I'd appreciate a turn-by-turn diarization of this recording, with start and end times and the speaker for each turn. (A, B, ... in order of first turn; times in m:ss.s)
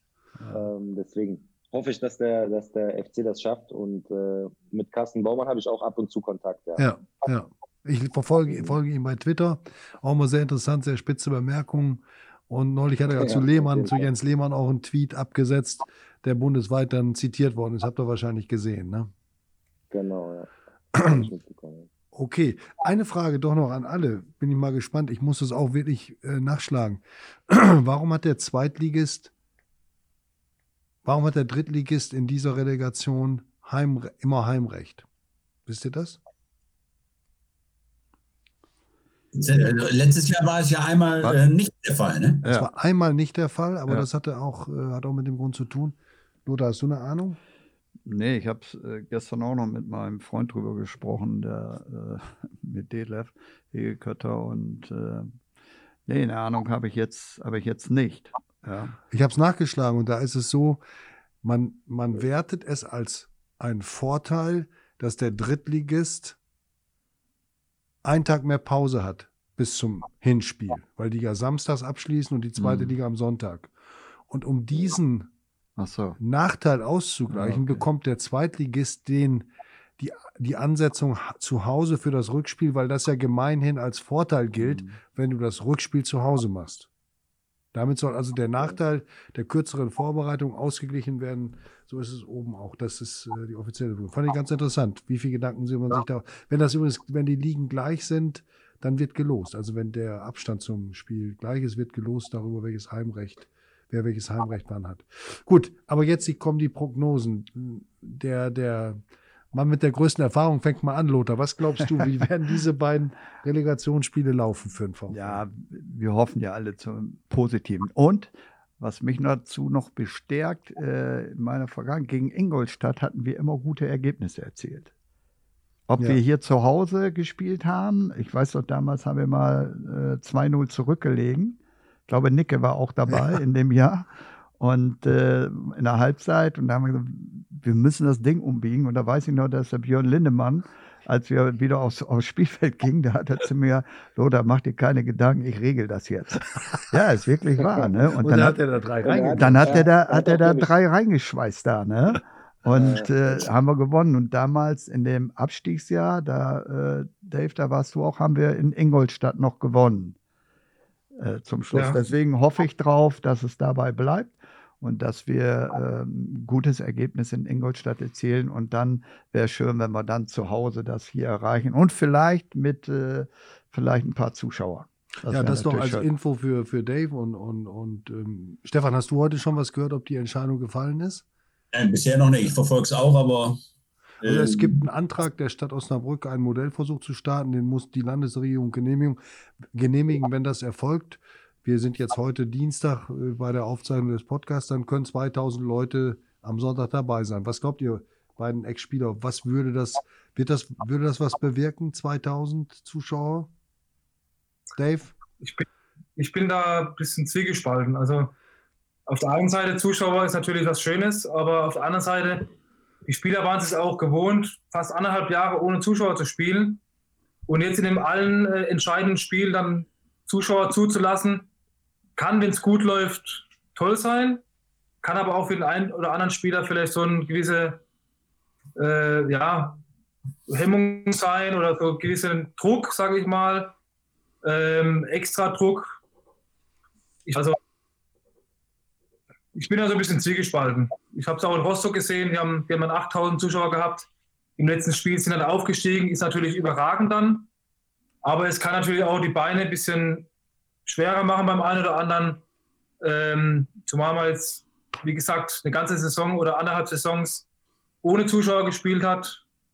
0:00.5-0:06.9 A
0:06.8-0:19.1 B
0:08.5-0:08.8 A
0:13.1-0:14.1 A
0:19.9-0:21.9 A
0:21.0-0:21.3 B
0:22.1-0:29.3 B
0:31.0-0:35.0 B
0:35.6-0:36.2 B
0:39.3-0:42.4 C
0:42.4-0:42.7 D
0:42.5-0:47.4 B
0:48.0-0:55.3 D
0:56.1-0:59.0 D
0:59.1-1:00.8 B
1:01.4-1:06.4 B
1:08.0-1:13.7 B
1:12.6-1:12.9 D
1:14.3-1:15.3 B
1:15.8-1:16.2 D
1:16.2-1:19.5 B
1:17.3-1:17.8 D
1:20.0-1:26.9 B
1:24.6-1:25.0 D
1:27.7-1:49.0 B
1:49.5-1:55.4 B
1:55.1-2:04.9 D
2:05.9-2:28.6 D
2:28.2-2:29.8 B
2:29.0-2:30.7 A
2:29.3-2:40.2 D
2:32.7-2:33.5 A
2:41.2-2:56.1 D
2:41.7-2:42.0 E
2:55.3-3:01.2 B
3:01.7-3:03.6 C
3:04.2-3:04.8 C
3:04.2-3:09.2 B
3:09.7-3:23.5 B
3:24.8-3:25.1 B
3:25.4-3:28.3 E
3:29.1-3:32.5 E
3:33.0-3:36.8 E
3:37.5-3:41.5 E
3:42.2-3:44.4 E
3:45.0-3:47.8 E
3:48.8-3:49.8 E
3:50.5-3:53.8 E
3:54.4-3:56.0 E
3:57.2-3:57.6 E
3:59.5-4:07.5 E
4:08.2-4:10.3 E
4:10.8-4:12.4 E
4:13.0-4:17.4 E
4:18.0-4:19.4 E